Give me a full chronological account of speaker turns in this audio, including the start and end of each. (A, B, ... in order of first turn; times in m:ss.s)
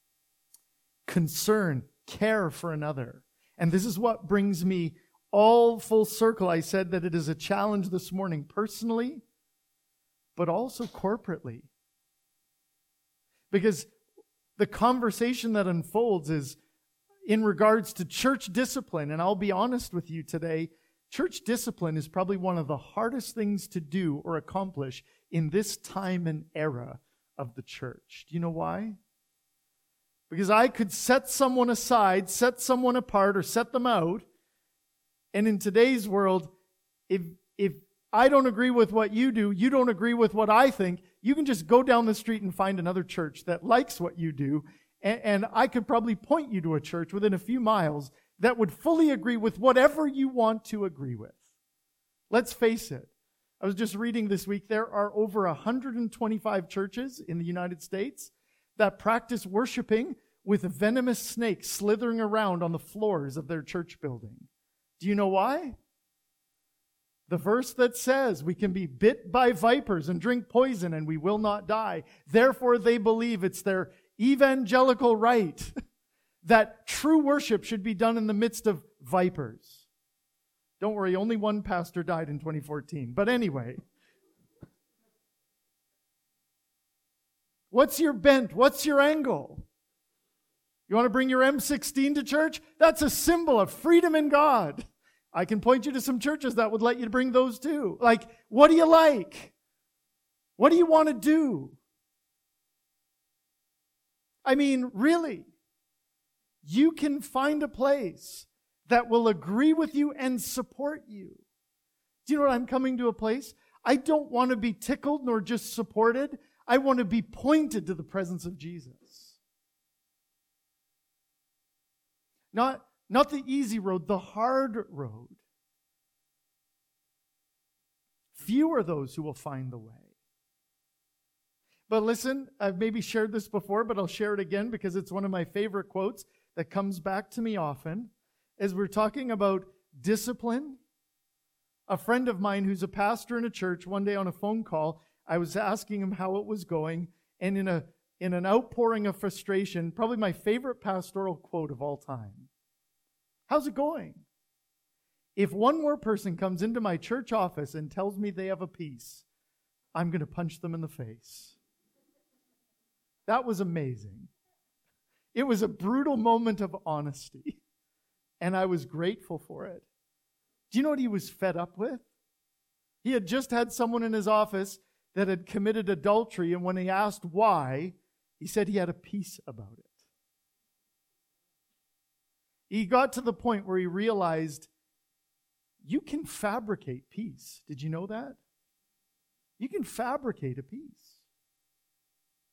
0:01.1-0:09.2 A
0:10.4-0:11.7 A
0:13.5-0:13.9 A
0:14.6-0:16.6 A
0:17.3-0:29.0 A
0:30.3-0:34.3 A
0:35.3-0:36.5 A
0:37.1-0:51.4 A
0:52.3-1:04.5 A
1:05.0-1:05.8 A
1:07.3-1:15.7 A
1:16.4-1:19.9 A
1:20.8-1:23.8 A
1:27.7-1:29.7 A
1:30.9-1:39.5 A
1:40.6-1:41.8 A
1:44.4-1:45.5 A
1:46.6-1:51.4 A
1:52.3-1:59.4 A
2:02.5-2:05.4 A
2:08.3-2:10.1 A
2:11.9-2:20.8 A
2:21.9-2:32.5 A
2:33.5-2:34.2 A
2:35.4-2:39.2 A
2:39.9-2:41.6 A
2:43.3-2:44.3 A
2:45.3-2:47.6 A
2:48.4-2:49.9 A
2:50.7-2:52.0 A
2:53.0-2:59.9 A
3:02.7-3:04.7 A
3:05.8-3:08.4 A
3:09.6-3:11.2 A